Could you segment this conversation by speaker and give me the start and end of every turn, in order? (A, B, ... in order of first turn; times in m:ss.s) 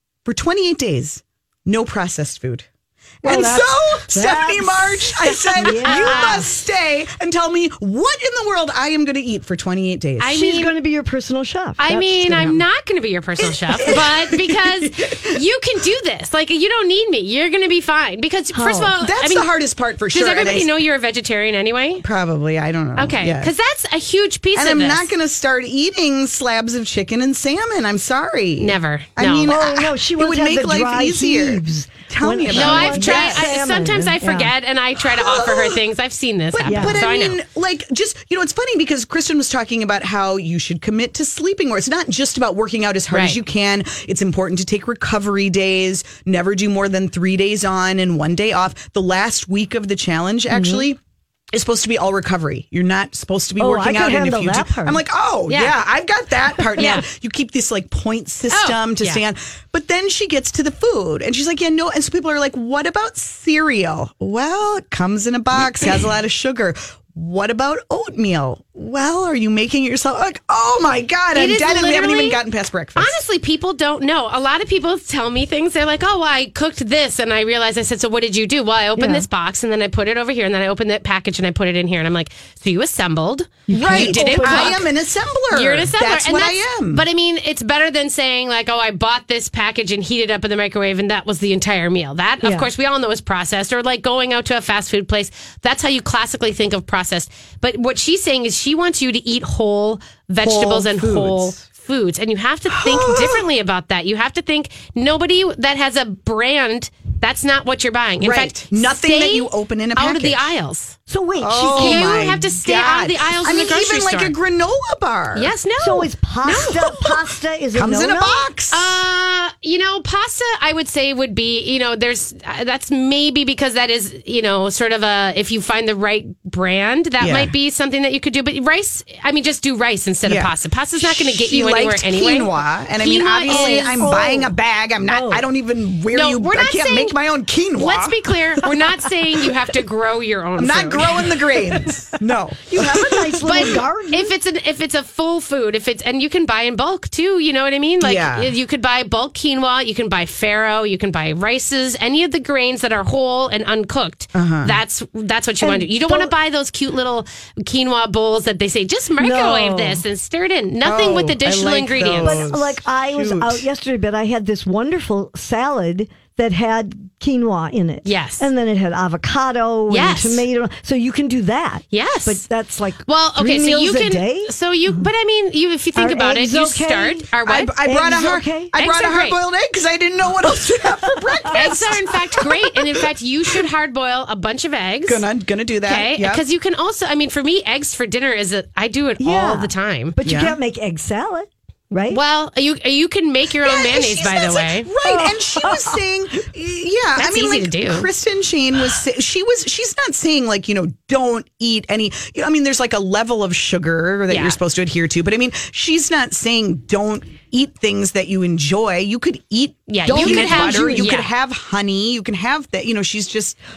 0:00.2-0:02.7 A
0:03.2-0:06.6 B
0:03.2-0:10.4 A
0:05.6-0:06.5 C
0:10.2-0:10.8 C
0:10.3-0:12.6 B
0:11.8-0:19.5 C
0:12.4-0:12.6 A
0:13.4-0:15.4 A
0:18.5-0:19.0 B
0:19.0-0:20.7 A
0:20.1-0:22.0 C
0:22.0-0:23.5 A
0:23.0-0:25.1 C
0:24.5-0:33.6 A
0:28.6-0:29.6 C
0:29.5-0:34.5 B
0:32.5-0:37.4 C
0:35.0-0:35.8 A
0:36.5-0:51.0 A
0:36.7-0:37.0 B
0:43.1-0:43.4 C
0:50.5-0:50.9 B
0:51.5-1:13.2 A
0:53.6-0:55.0 B
0:55.5-0:55.8 C
0:56.7-0:57.1 C
0:58.5-0:59.2 C
1:11.3-1:12.4 C
1:13.0-1:24.8 C
1:19.0-1:19.3 B
1:23.7-1:24.8 B
1:23.7-1:27.0 A
1:25.5-1:51.0 C
1:32.4-1:32.7 B
1:40.4-1:41.6 A
1:42.7-1:43.5 A
1:48.2-1:50.5 A
1:51.1-1:52.3 B
1:51.4-1:55.5 A
1:51.8-1:54.3 C
1:55.4-1:57.2 C
1:55.8-1:58.5 B
1:57.7-1:59.1 A
1:58.7-2:14.2 C
2:07.2-2:07.5 A
2:10.3-2:18.4 A
2:13.5-2:14.5 B
2:15.1-2:15.4 B
2:16.1-2:17.2 C
2:17.8-2:21.3 C
2:20.6-2:23.6 A
2:22.7-2:24.3 B
2:23.4-2:42.5 C
2:28.0-2:28.5 A
2:34.3-2:34.8 A
2:35.6-2:36.3 B
2:39.2-2:40.0 B
2:40.8-2:43.6 A
2:42.2-2:55.0 B
2:48.0-2:48.5 C
2:49.9-2:50.4 C
2:51.9-2:52.4 C
2:53.1-2:57.7 C
2:56.0-2:57.3 B
2:57.4-3:03.6 A
2:57.8-2:58.7 B
2:58.8-2:59.4 C
3:00.5-3:02.0 B
3:01.5-3:05.2 C
3:05.0-3:06.4 A
3:05.9-3:10.1 C
3:09.2-3:12.2 B
3:10.2-3:10.6 A
3:12.1-3:14.9 C
3:13.6-3:33.6 A
3:15.0-3:16.0 B
3:17.2-3:18.1 C
3:24.3-3:24.6 C
3:29.9-3:31.3 C
3:30.1-3:31.1 B